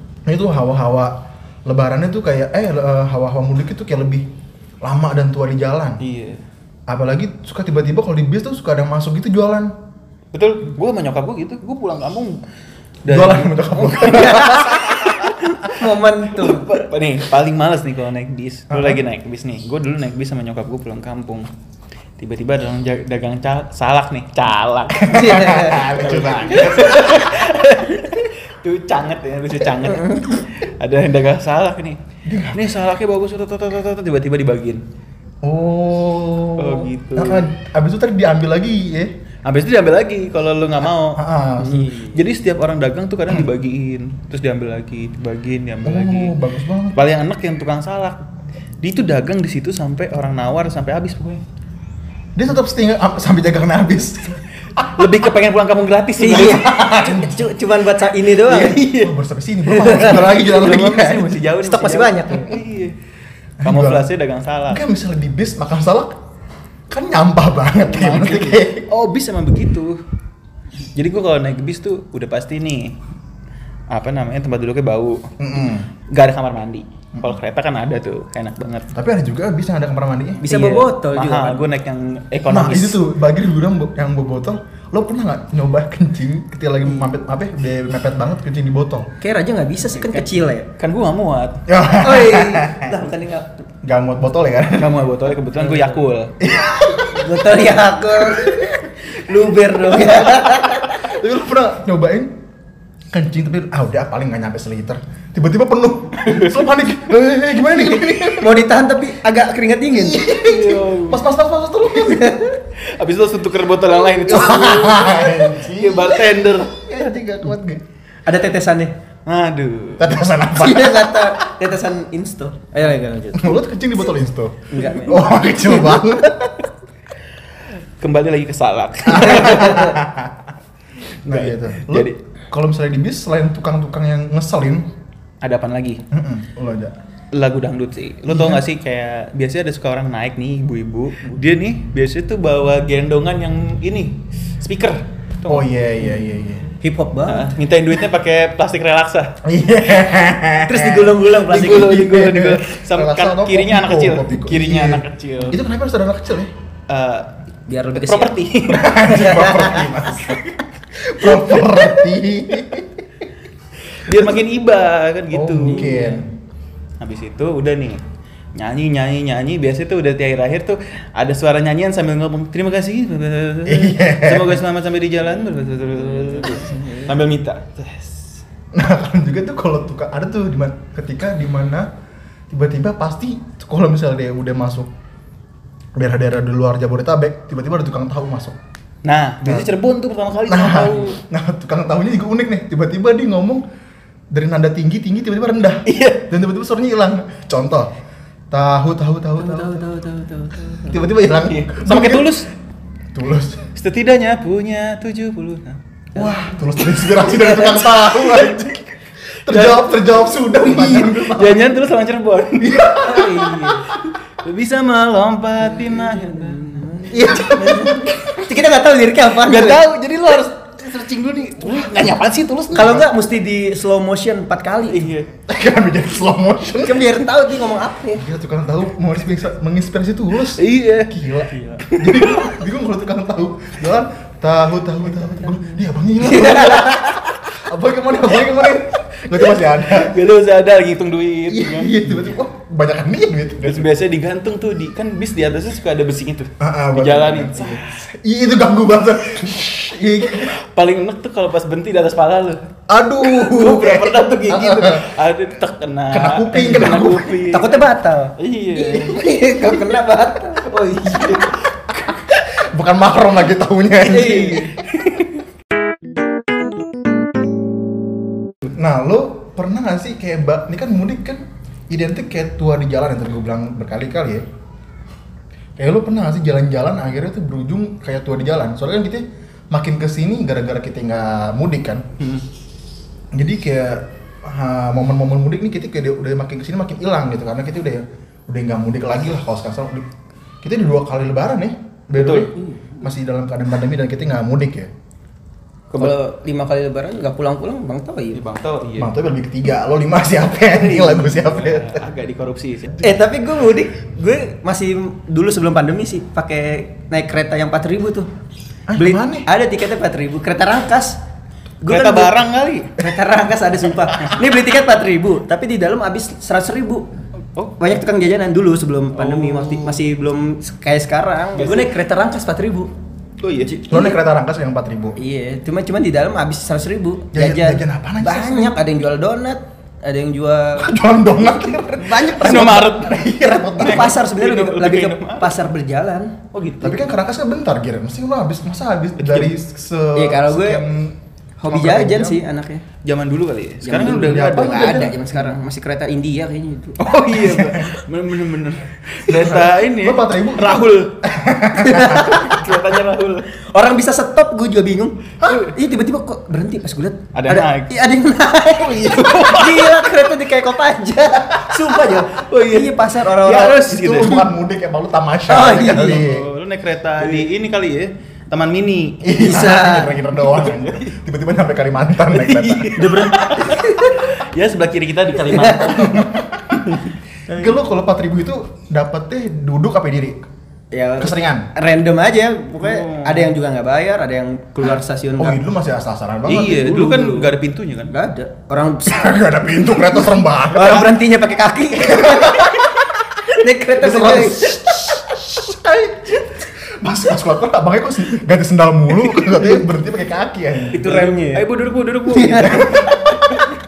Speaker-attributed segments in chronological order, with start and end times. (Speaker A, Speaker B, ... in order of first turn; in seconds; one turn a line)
Speaker A: 0.3-4.3
Speaker A: 4.8-6.0
Speaker B: 6.0-6.4
Speaker A: 6.9-9.7
Speaker B: 10.3-12.4
Speaker B: 13.0-15.8
Speaker A: 13.1-15.2
Speaker C: 14.0-16.7
Speaker B: 16.3-21.5
Speaker A: 18.7-19.0
Speaker B: 22.2-32.0
Speaker A: 24.9-27.3
Speaker C: 25.1-25.9
Speaker C: 29.9-30.4
Speaker A: 32.2-32.8
Speaker B: 32.5-34.8
Speaker A: 35.4-39.1
Speaker B: 36.6-37.5
Speaker B: 39.4-46.3
Speaker A: 41.1-41.9
Speaker A: 45.8-47.0
Speaker B: 46.9-48.2
Speaker B: 48.8-51.4
Speaker A: 52.3-55.2
Speaker B: 54.9-57.2
Speaker C: 56.2-58.8
Speaker A: 56.8-57.5
Speaker A: 58.5-61.4
Speaker B: 58.5-59.1
Speaker C: 59.7-60.4
Speaker B: 59.8-63.0
Speaker C: 61.6-62.5
Speaker A: 63.6-64.1
Speaker B: 63.6-64.8
Speaker A: 64.7-66.2
Speaker A: 66.9-68.9
Speaker B: 67.8-70.0
Speaker B: 70.9-73.0
Speaker B: 73.9-75.3
Speaker A: 75.4-75.9
Speaker B: 76.1-78.9
Speaker A: 78.9-80.5
Speaker C: 80.4-81.6
Speaker B: 80.5-83.0
Speaker A: 82.5-89.1
Speaker C: 89.2-90.7
Speaker B: 90.1-91.6
Speaker A: 91.7-93.0
Speaker C: 91.9-93.6
Speaker A: 93.8-95.0
Speaker B: 94.8-96.3
Speaker C: 95.6-96.0
Speaker A: 96.4-97.5
Speaker C: 97.1-101.1
Speaker A: 98.2-98.8
Speaker A: 100.1-102.3
Speaker A: 103.1-108.7
Speaker B: 106.2-106.7
Speaker C: 108.3-110.2
Speaker A: 109.9-112.4
Speaker B: 110.3-111.2
Speaker C: 112.0-112.6
Speaker B: 112.8-116.9
Speaker A: 114.3-117.8
Speaker C: 114.6-115.1
Speaker C: 118.2-118.9
Speaker B: 119.2-120.1
Speaker A: 120.0-121.4
Speaker C: 120.5-123.6
Speaker A: 123.3-126.6
Speaker C: 124.7-125.9
Speaker B: 128.0-130.0
Speaker A: 129.1-130.5
Speaker C: 129.5-129.9
Speaker B: 131.2-132.2
Speaker A: 131.2-134.9
Speaker B: 135.4-136.0
Speaker A: 136.1-136.9
Speaker B: 137.3-145.7
Speaker A: 138.3-138.6
Speaker A: 145.5-146.7
Speaker C: 146.8-147.5
Speaker B: 147.2-149.4
Speaker A: 149.4-156.5
Speaker C: 150.6-152.0
Speaker B: 151.5-155.6
Speaker B: 156.9-157.3
Speaker C: 157.7-158.4
Speaker B: 157.9-159.4
Speaker A: 158.7-160.4
Speaker C: 159.0-159.9
Speaker B: 160.2-160.6
Speaker A: 160.9-163.1
Speaker B: 161.2-162.0
Speaker B: 163.9-166.2
Speaker A: 165.3-166.3
Speaker C: 165.7-166.2
Speaker B: 167.0-168.0
Speaker B: 168.6-178.4
Speaker A: 173.7-174.6
Speaker C: 176.7-177.1
Speaker A: 178.7-181.9
Speaker A: 182.5-184.9
Speaker A: 185.9-188.6
Speaker B: 189.0-191.2
Speaker A: 189.4-189.7
Speaker A: 190.5-193.6
Speaker A: 194.3-197.9
Speaker B: 195.9-196.3
Speaker A: 198.5-199.8
Speaker C: 199.4-201.0
Speaker A: 200.8-202.3
Speaker B: 201.4-202.5
Speaker A: 203.1-203.7
Speaker B: 203.7-205.8
Speaker A: 206.1-208.9
Speaker C: 206.2-206.6
Speaker C: 207.2-207.8
Speaker B: 208.2-208.5
Speaker A: 209.4-211.7
Speaker B: 209.4-212.9
Speaker A: 212.6-213.5
Speaker C: 213.0-213.9
Speaker B: 213.9-217.9
Speaker C: 216.4-219.8
Speaker A: 217.1-218.4
Speaker B: 219.4-223.1
Speaker C: 222.7-225.1
Speaker B: 224.9-225.3
Speaker A: 225.5-227.2
Speaker C: 226.8-228.2
Speaker A: 228.1-240.2
Speaker B: 230.5-231.2
Speaker B: 231.7-232.6
Speaker C: 236.2-237.2
Speaker B: 239.8-242.3
Speaker A: 241.5-243.9
Speaker B: 243.6-247.9
Speaker A: 246.6-250.5
Speaker B: 250.3-252.6
Speaker A: 252.9-255.1
Speaker B: 253.2-257.8
Speaker A: 256.1-257.4
Speaker C: 257.5-260.7
Speaker B: 258.4-259.2
Speaker B: 260.6-261.6
Speaker A: 261.4-264.8
Speaker C: 264.1-264.8
Speaker B: 264.8-265.3
Speaker A: 268.7-274.4
Speaker A: 275.8-282.0
Speaker B: 282.2-282.4
Speaker A: 283.3-290.1
Speaker A: 290.6-294.9
Speaker B: 292.1-292.5
Speaker B: 295.9-296.1
Speaker C: 296.0-298.4
Speaker B: 298.3-299.1
Speaker A: 299.0-302.0
Speaker B: 300.7-303.1
Speaker C: 303.0-308.3
Speaker A: 308.9-309.5
Speaker C: 308.9-311.2
Speaker C: 311.8-312.3
Speaker B: 311.9-312.9
Speaker C: 313.0-317.1
Speaker B: 317.5-317.9
Speaker C: 317.8-322.9
Speaker B: 319.1-320.0
Speaker B: 321.5-321.9
Speaker B: 323.4-323.8
Speaker C: 323.7-324.2
Speaker A: 323.9-325.1
Speaker C: 325.1-330.9
Speaker A: 327.3-328.8
Speaker A: 330.8-334.2
Speaker C: 332.0-332.9
Speaker B: 332.3-335.5
Speaker C: 333.8-336.4
Speaker B: 336.5-337.0
Speaker A: 336.8-342.4
Speaker B: 339.2-339.5
Speaker C: 340.1-340.8
Speaker C: 341.6-342.8
Speaker B: 343.0-345.1
Speaker C: 343.8-347.0
Speaker A: 344.0-345.2
Speaker B: 347.0-351.1
Speaker A: 347.3-348.0
Speaker A: 349.3-352.4
Speaker C: 351.8-352.7
Speaker B: 352.0-353.5
Speaker C: 353.7-363.8
Speaker B: 355.4-355.7
Speaker B: 357.3-357.9
Speaker B: 358.7-360.1
Speaker B: 361.7-364.5
Speaker A: 363.4-366.5
Speaker C: 365.5-366.2
Speaker B: 365.9-369.2
Speaker A: 369.2-372.9
Speaker C: 369.3-370.2
Speaker B: 370.4-371.1
Speaker B: 372.3-377.0
Speaker C: 372.9-374.2
Speaker C: 375.4-376.2
Speaker A: 375.9-376.8
Speaker A: 377.5-380.4
Speaker C: 380.9-385.6
Speaker A: 381.2-381.7
Speaker B: 382.8-383.5
Speaker A: 385.4-386.9
Speaker B: 386.5-388.1
Speaker C: 386.5-387.5
Speaker C: 388.1-395.2
Speaker A: 389.0-391.2
Speaker A: 391.9-393.1
Speaker A: 394.0-401.0
Speaker C: 400.9-401.7
Speaker B: 400.9-403.6
Speaker C: 402.2-403.7
Speaker A: 402.6-403.3